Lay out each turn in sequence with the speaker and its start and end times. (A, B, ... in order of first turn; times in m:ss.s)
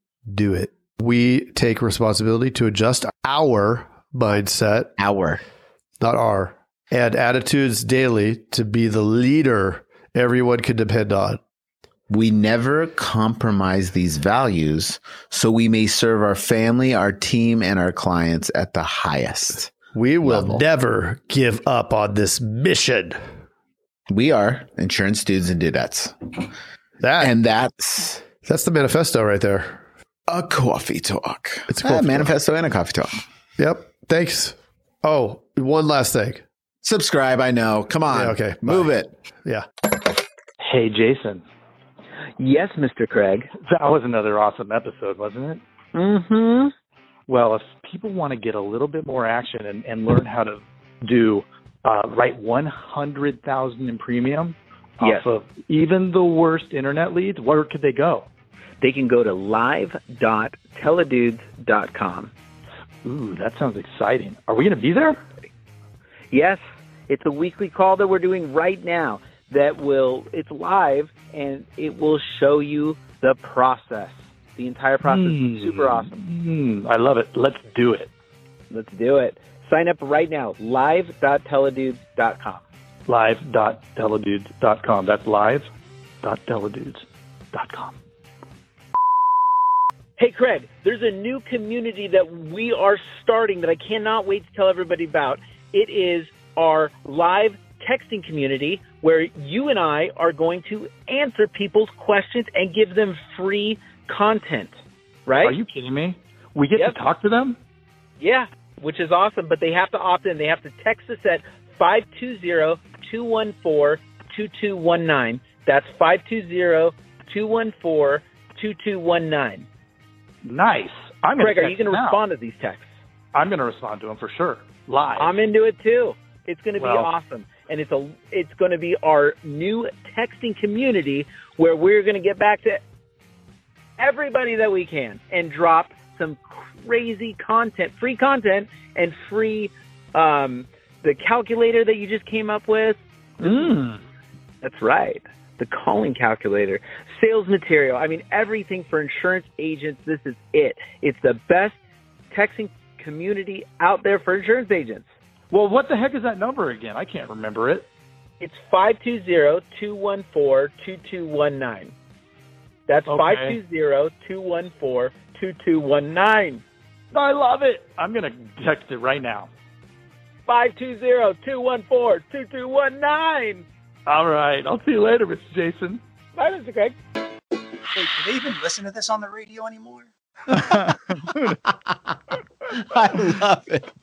0:00.3-0:05.0 A
0:05.0-0:05.4 B
0:06.0-0:11.4 A
0:12.1-0:19.7 B
0:19.9-0:23.2 A
0:20.2-0:20.6 B
0:24.1-0:26.5 B
0:27.0-0:27.3 A
0:27.2-0:28.2 B
0:28.4-0:29.8 A
0:30.3-0:33.1 B
0:31.7-0:32.3 A
0:33.6-0:36.4 A
0:36.8-0:39.1 B
0:38.1-0:39.6 A
0:40.6-0:41.4 C
0:42.4-0:43.5 D
0:43.6-0:45.6 C
0:45.9-0:46.7 D
0:47.3-0:58.3 C
0:55.0-0:55.3 D
0:58.8-1:02.3 D
1:03.0-1:05.2 C
1:06.3-1:16.2 D
1:15.0-1:18.1 C
1:18.7-1:22.6 D
1:23.1-1:25.7 C
1:26.2-1:28.0 C
1:30.2-1:44.7 D
1:45.3-1:45.6 D
1:45.4-1:47.6 C
1:48.2-1:59.7 D
2:00.4-2:02.2 C
2:01.4-2:02.8 D
2:03.3-2:05.4 C
2:05.2-2:12.8 D
2:06.8-2:07.1 C
2:14.0-2:23.7 D
2:23.4-2:24.0 C
2:24.6-2:31.8 D
2:32.3-2:35.0 D
2:35.5-2:37.9 C
2:38.4-2:41.9 D
2:42.9-2:46.6 D
2:43.1-2:43.6 C
2:47.1-2:49.5 C
2:50.5-2:53.6 D
2:54.1-2:56.0 C
2:56.4-2:57.0 D
2:58.0-3:00.0 E
3:02.9-3:03.8 B